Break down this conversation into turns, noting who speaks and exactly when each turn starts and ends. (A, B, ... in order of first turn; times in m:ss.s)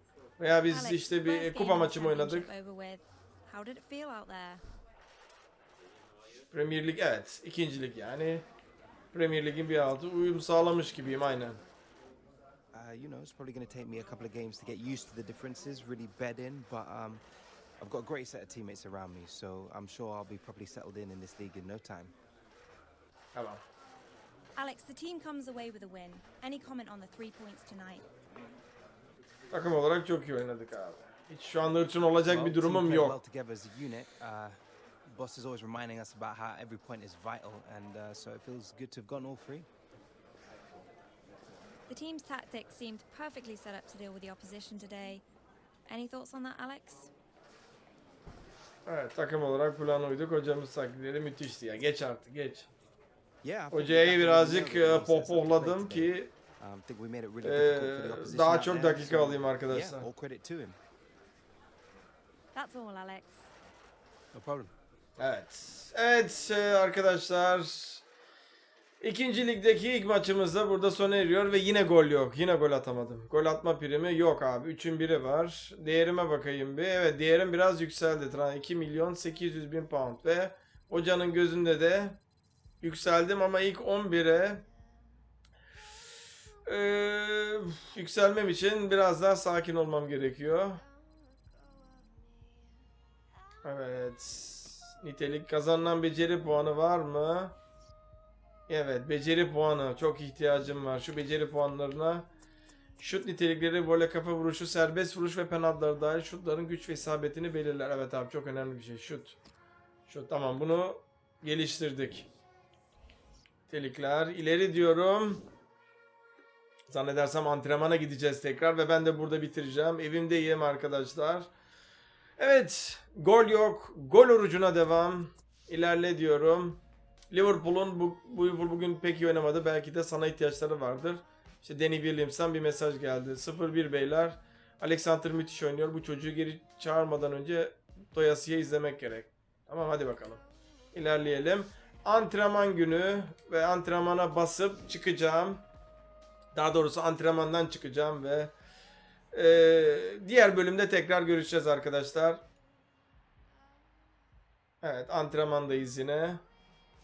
0:00.4-0:02.5 A
0:00.7-0:04.6 B
0:06.5-0:08.4 A
0:09.1-0:11.6 A
0:12.7-0:17.2 C
0:17.8-0:22.1 C
0:23.3-0:23.6 A
0:24.6-0:28.0 B
0:29.5-0:33.2 A
0:32.2-0:39.7 C
0:41.9-0:45.2 B
0:45.9-0:47.1 B
0:48.8-0:52.7 A
0:53.4-1:00.8 C
0:53.7-0:56.3 A
0:57.4-1:00.1 A
1:02.5-1:03.4 B
1:04.3-1:04.7 C
1:05.2-1:08.0 A
1:09.0-1:22.2 A
1:22.8-1:24.6 A
1:26.6-1:30.8 A
1:33.6-1:37.6 A
1:38.7-1:42.3 A
1:43.0-1:49.4 A
1:50.1-1:52.3 A
1:53.7-1:55.4 A
1:56.9-2:01.5 A
2:02.4-2:20.4 A
2:20.9-2:25.6 A
2:26.5-2:28.5 A
2:29.3-2:32.4 A
2:34.8-2:36.4 A